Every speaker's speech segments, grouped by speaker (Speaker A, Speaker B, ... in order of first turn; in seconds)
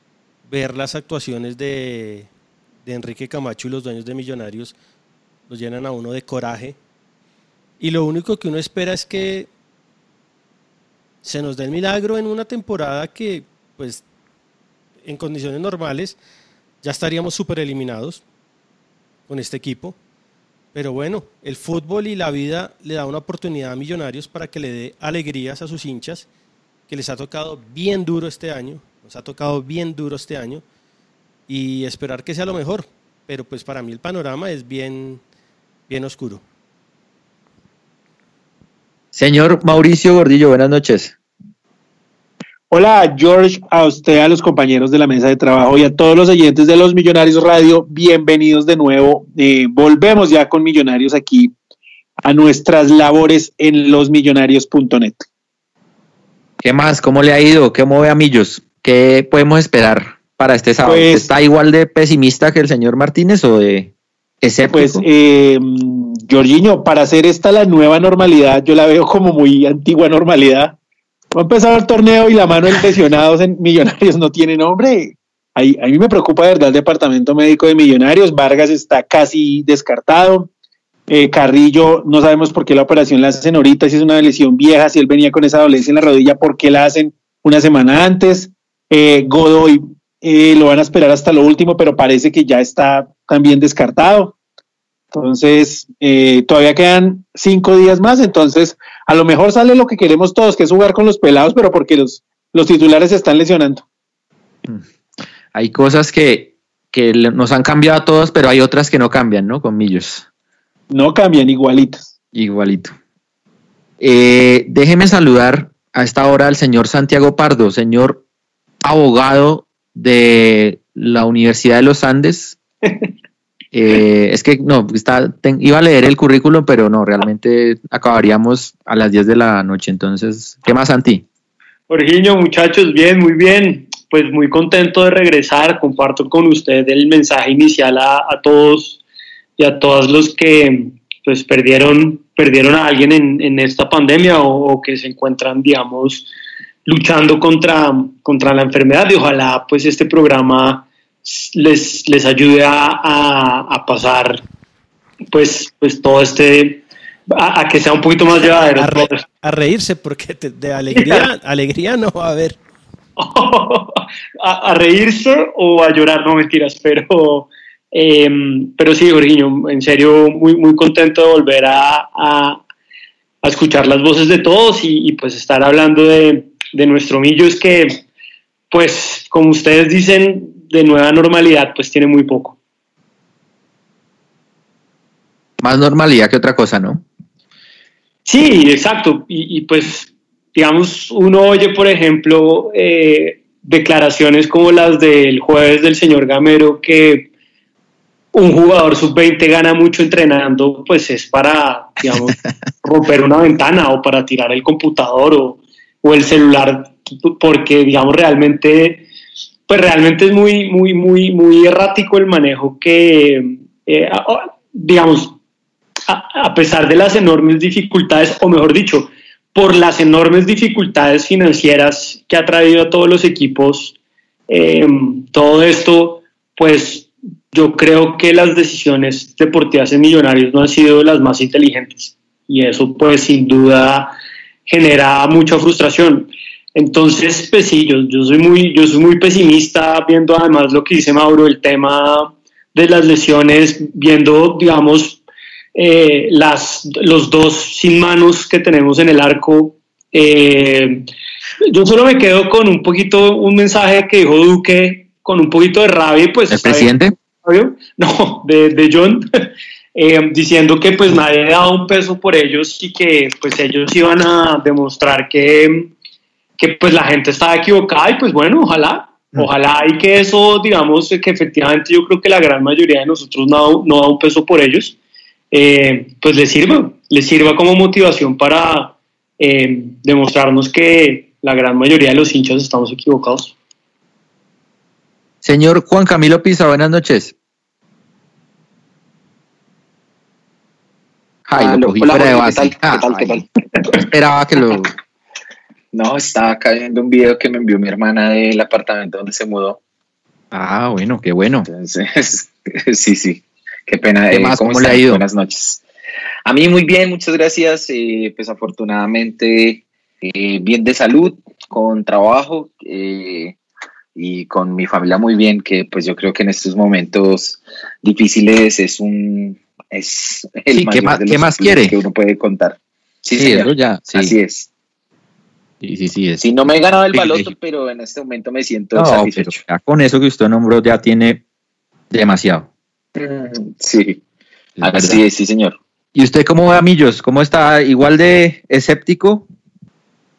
Speaker A: 0.5-2.3, 2.9-4.8, 5.5-6.8, 7.8-9.5, 11.2-14.0, 15.0-16.2, 16.8-18.2, 19.3-20.0, 20.7-26.3, 26.9-30.6, 31.5-35.2, 35.9-36.4, 158.7-162.6
Speaker B: 39.1-41.2, 56.6-63.9, 64.4-65.1, 105.5-110.2, 112.3-113.0, 114.0-118.2, 118.8-122.6, 123.7-131.3, 185.6-187.1, 256.5-257.1, 285.4-287.3, 291.5-294.9, 300.5-301.7, 304.3-305.2, 320.7-321.9, 323.4-324.3, 325.8-326.5, 327.1-327.5, 328.9-331.4, 332.1-332.7, 334.8-335.2, 336.1-339.5
Speaker C: 42.7-51.5, 52.2-55.2, 60.8-61.3, 64.7-70.8, 71.3-80.5, 81.1-94.3, 95.1-103.8, 110.9-112.1
Speaker D: 131.9-139.0, 139.6-146.3, 146.9-154.4, 155.3-159.2, 160.9-161.3, 163.2-172.6, 173.4-178.0, 178.7-182.6, 188.3-197.3, 198.3-209.1, 209.7-215.4, 216.1-223.9, 224.5-234.1, 234.7-245.2, 245.8-251.1, 251.7-265.9, 266.6-275.0, 275.5-283.5
Speaker E: 291.6-294.0, 295.9-299.8, 301.7-305.8, 306.4-313.6, 314.1-324.7, 326.4-329.6, 333.2-334.2, 334.8-335.8